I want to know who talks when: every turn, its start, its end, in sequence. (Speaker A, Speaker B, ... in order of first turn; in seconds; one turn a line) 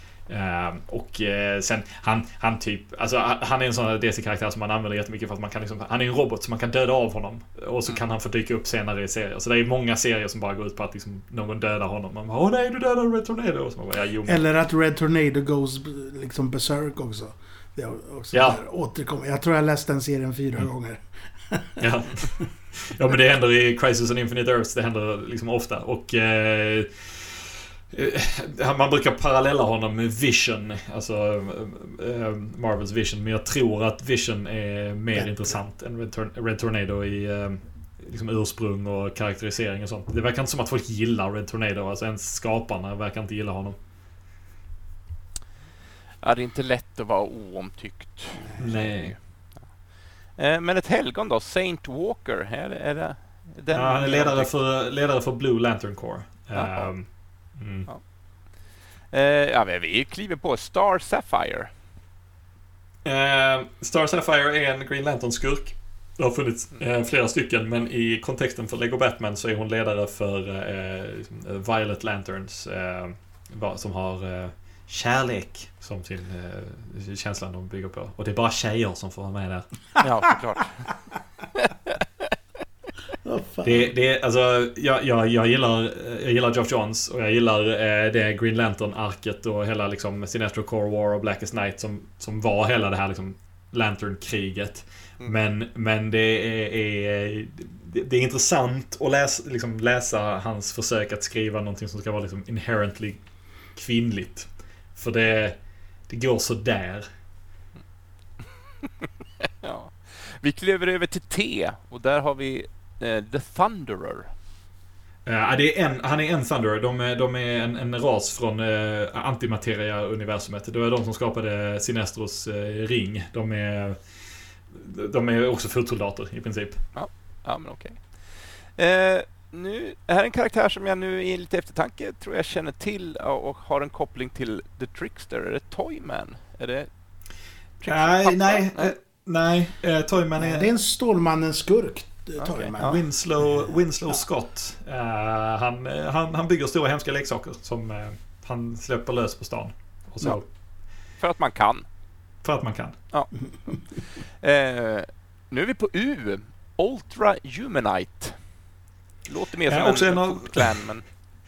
Speaker A: 0.3-14.4
Speaker B: 14.2-21.8
Speaker A: 18.3-18.6
Speaker A: 21.8-26.9
Speaker A: 27.9-43.8
Speaker C: 46.2-49.7
Speaker A: 48.6-49.1
Speaker C: 50.4-54.5
Speaker A: 53.7-57.9
Speaker C: 56.5-56.9
Speaker C: 59.1-61.7
Speaker A: 63.0-79.7
Speaker C: 80.0-80.9
Speaker C: 81.5-82.3
Speaker B: 83.2-83.9
Speaker A: 83.6-103.2
Speaker A: 103.7-105.6
Speaker A: 106.1-107.0
Speaker C: 109.0-114.3
Speaker A: 115.2-124.0
Speaker A: 124.7-126.8
Speaker C: 126.9-128.2
Speaker C: 128.8-136.9
Speaker C: 137.8-138.9
Speaker A: 137.9-140.7
Speaker B: 140.4-143.7
Speaker C: 142.4-143.0
Speaker A: 142.8-150.4
Speaker C: 151.2-151.8
Speaker A: 152.4-152.9
Speaker C: 154.4-158.4
Speaker C: 159.3-161.0
Speaker A: 159.7-160.7